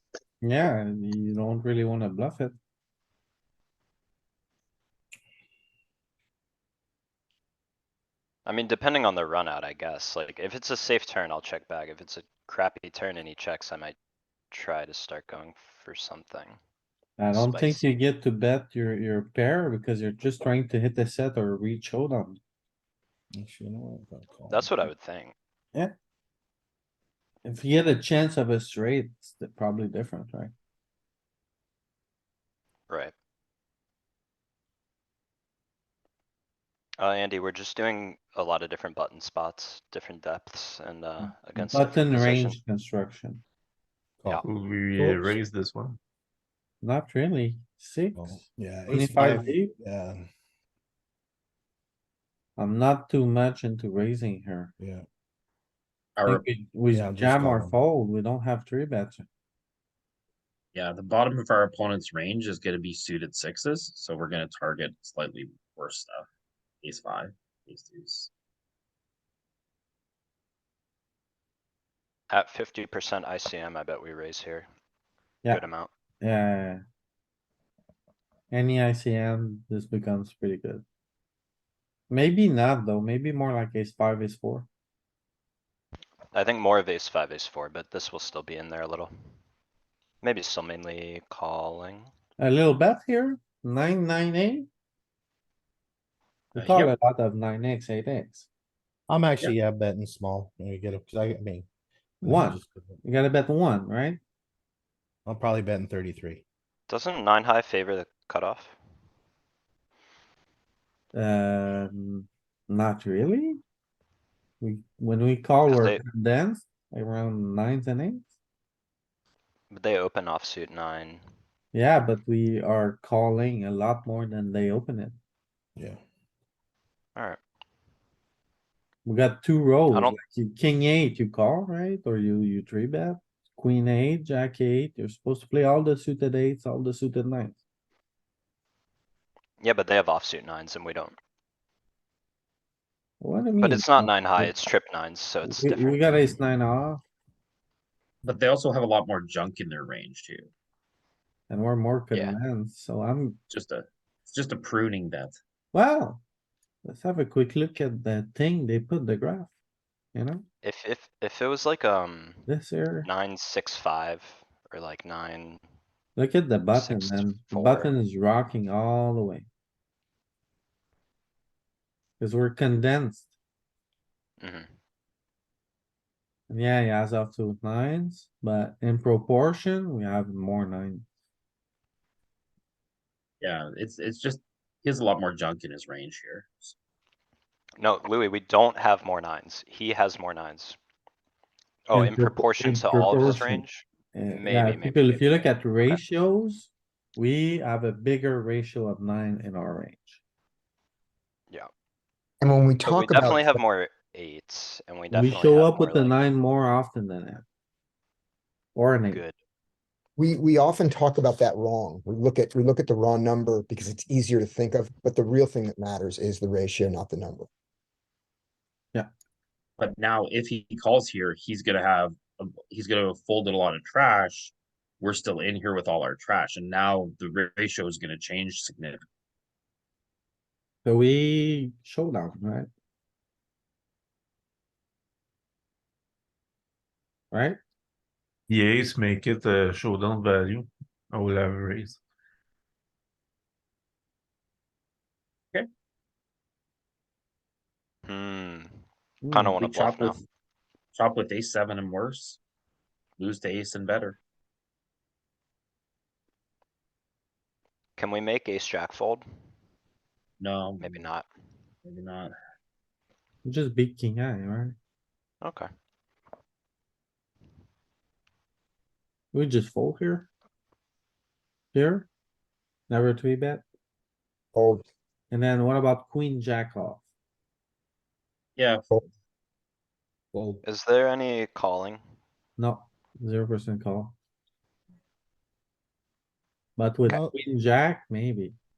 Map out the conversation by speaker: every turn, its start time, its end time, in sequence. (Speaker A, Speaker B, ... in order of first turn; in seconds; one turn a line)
Speaker A: 0.4-2.5
Speaker B: 8.4-14.0
Speaker B: 14.5-16.6
Speaker A: 17.2-22.4
Speaker B: 17.3-17.9
Speaker C: 23.3-24.9
Speaker B: 24.5-25.4
Speaker A: 27.4-30.5
Speaker B: 32.9-33.1
Speaker B: 37.0-42.6
Speaker A: 41.2-43.4
Speaker D: 44.4-46.0
Speaker C: 45.0-45.4
Speaker A: 46.8-49.7
Speaker C: 48.1-50.3
Speaker A: 52.6-54.7
Speaker C: 54.8-55.0
Speaker E: 56.2-56.5
Speaker A: 56.3-59.3
Speaker C: 56.9-57.7
Speaker E: 60.7-66.2
Speaker E: 66.8-68.3
Speaker B: 72.3-74.7
Speaker B: 75.5-75.9
Speaker A: 76.2-76.8
Speaker A: 78.5-80.8
Speaker A: 82.1-84.7
Speaker B: 86.3-89.1
Speaker B: 90.2-92.1
Speaker A: 92.4-94.7
Speaker A: 96.5-98.5
Speaker E: 96.6-96.9
Speaker C: 99.1-101.7
Speaker C: 102.2-103.0
Speaker A: 102.2-104.2
Speaker C: 105.3-106.4
Speaker B: 106.9-108.8
Speaker A: 111.1-113.6
Speaker A: 114.6-118.3
Speaker B: 115.7-116.0
Speaker B: 119.7-121.2
Speaker A: 121.7-125.2
Speaker A: 129.1-137.6
Speaker B: 129.9-130.2
Speaker B: 139.6-141.2
Speaker A: 143.2-144.5
Speaker B: 143.6-146.3
Speaker A: 145.4-147.0
Speaker E: 148.2-150.5
Speaker A: 151.5-153.4
Speaker E: 153.5-155.4
Speaker A: 155.7-156.2
Speaker A: 156.8-159.5
Speaker A: 160.1-160.4
Speaker B: 160.6-162.4
Speaker A: 162.5-163.1
Speaker B: 163.0-165.6
Speaker A: 166.2-169.5
Speaker B: 166.7-167.9
Speaker A: 172.2-173.3
Speaker B: 174.4-174.7
Speaker A: 176.5-181.1
Speaker E: 183.4-186.8
Speaker B: 187.8-190.8
Speaker B: 191.9-196.0
Speaker A: 191.9-200.2
Speaker F: 202.4-203.6
Speaker B: 202.8-206.3
Speaker A: 205.1-207.4
Speaker A: 208.8-209.2
Speaker F: 210.2-217.5
Speaker E: 219.8-229.0
Speaker A: 230.8-232.7
Speaker A: 237.3-237.6
Speaker D: 238.5-242.0
Speaker B: 248.1-250.2
Speaker A: 249.2-249.7
Speaker E: 249.6-250.2
Speaker E: 250.9-252.4
Speaker E: 253.2-254.2
Speaker B: 258.0-259.2
Speaker E: 260.4-260.9
Speaker B: 260.8-261.3
Speaker E: 261.9-262.3
Speaker A: 263.4-264.8
Speaker B: 265.4-265.7
Speaker A: 269.3-270.3
Speaker A: 271.7-272.1
Speaker A: 272.9-273.6
Speaker F: 274.6-274.8
Speaker A: 275.3-277.1
Speaker E: 278.6-278.9
Speaker B: 280.6-282.0
Speaker A: 282.6-284.1
Speaker A: 286.8-288.6